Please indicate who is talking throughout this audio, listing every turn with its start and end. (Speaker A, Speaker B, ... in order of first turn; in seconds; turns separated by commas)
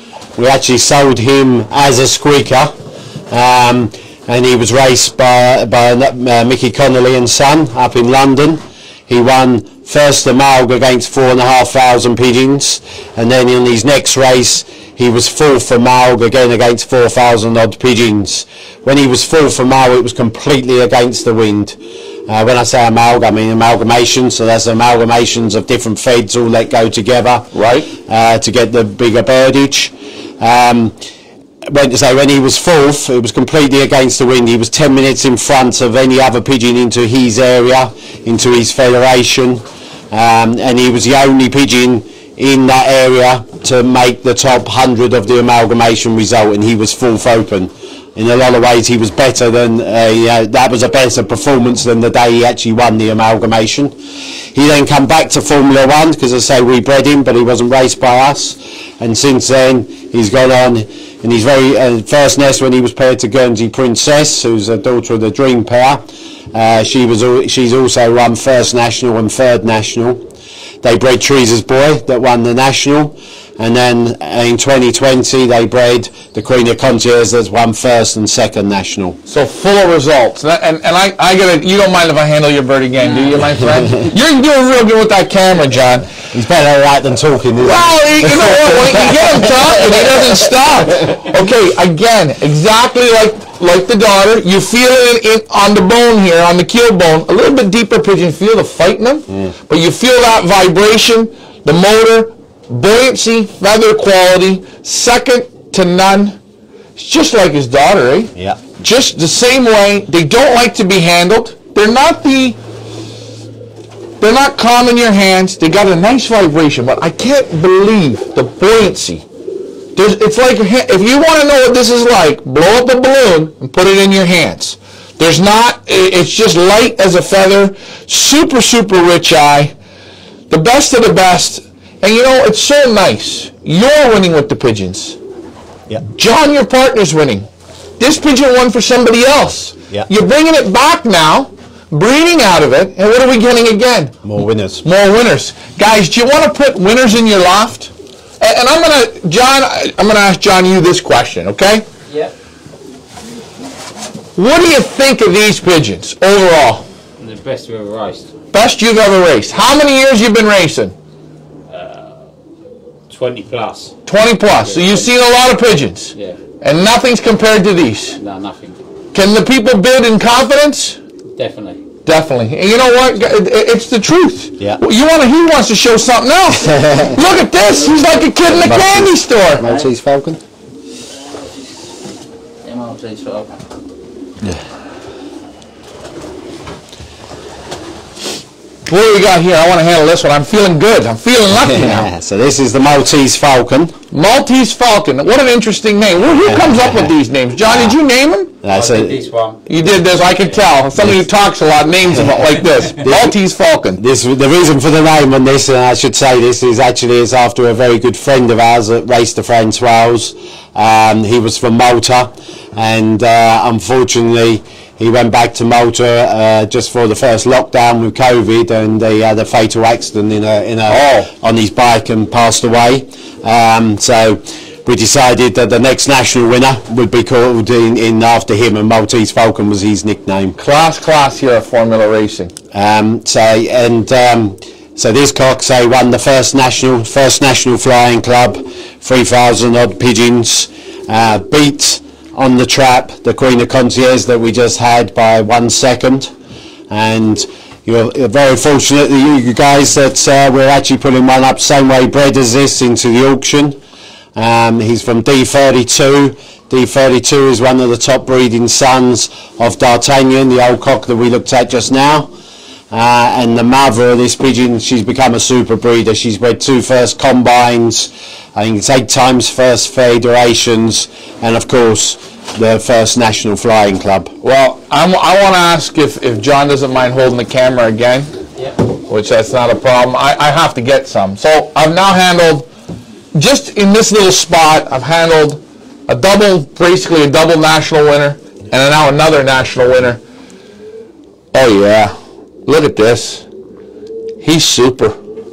Speaker A: 0.4-2.7, Speaker A: 3.3-31.0, Speaker B: 27.5-27.9, Speaker A: 31.7-54.0, Speaker A: 54.5-70.2, Speaker A: 70.8-79.2, Speaker B: 79.3-86.1, Speaker C: 83.0-83.4, Speaker A: 86.2-89.5, Speaker B: 87.6-106.4, Speaker B: 107.0-112.6, Speaker B: 114.2-119.2, Speaker B: 120.0-129.8, Speaker B: 130.5-135.2, Speaker B: 136.1-137.5, Speaker B: 138.0-144.2, Speaker A: 144.2-144.8, Speaker B: 144.8-151.9, Speaker C: 152.1-152.3, Speaker B: 154.4-156.8, Speaker C: 157.2-158.4, Speaker B: 158.5-160.9, Speaker C: 161.7-162.2, Speaker C: 163.1-164.0, Speaker B: 164.1-168.2, Speaker C: 164.6-165.1, Speaker C: 168.2-168.8, Speaker B: 169.1-171.0, Speaker C: 171.3-171.8, Speaker B: 172.1-179.6, Speaker A: 176.6-177.2, Speaker A: 178.5-180.4, Speaker C: 179.6-179.9, Speaker C: 182.6-183.5, Speaker B: 188.9-192.1, Speaker A: 191.6-193.9, Speaker B: 194.1-198.5, Speaker A: 196.4-197.1, Speaker A: 197.6-198.0, Speaker A: 198.6-199.2, Speaker C: 198.7-199.6, Speaker B: 199.7-204.0, Speaker A: 203.0-203.4, Speaker A: 204.0-230.6, Speaker B: 220.9-221.3, Speaker B: 230.6-232.5, Speaker A: 232.7-246.3, Speaker A: 246.9-253.8, Speaker A: 254.3-262.3, Speaker A: 262.9-274.3, Speaker B: 274.4-278.3, Speaker B: 279.1-282.7, Speaker B: 283.4-290.2, Speaker B: 291.5-292.1, Speaker B: 292.7-293.5, Speaker B: 294.4-295.2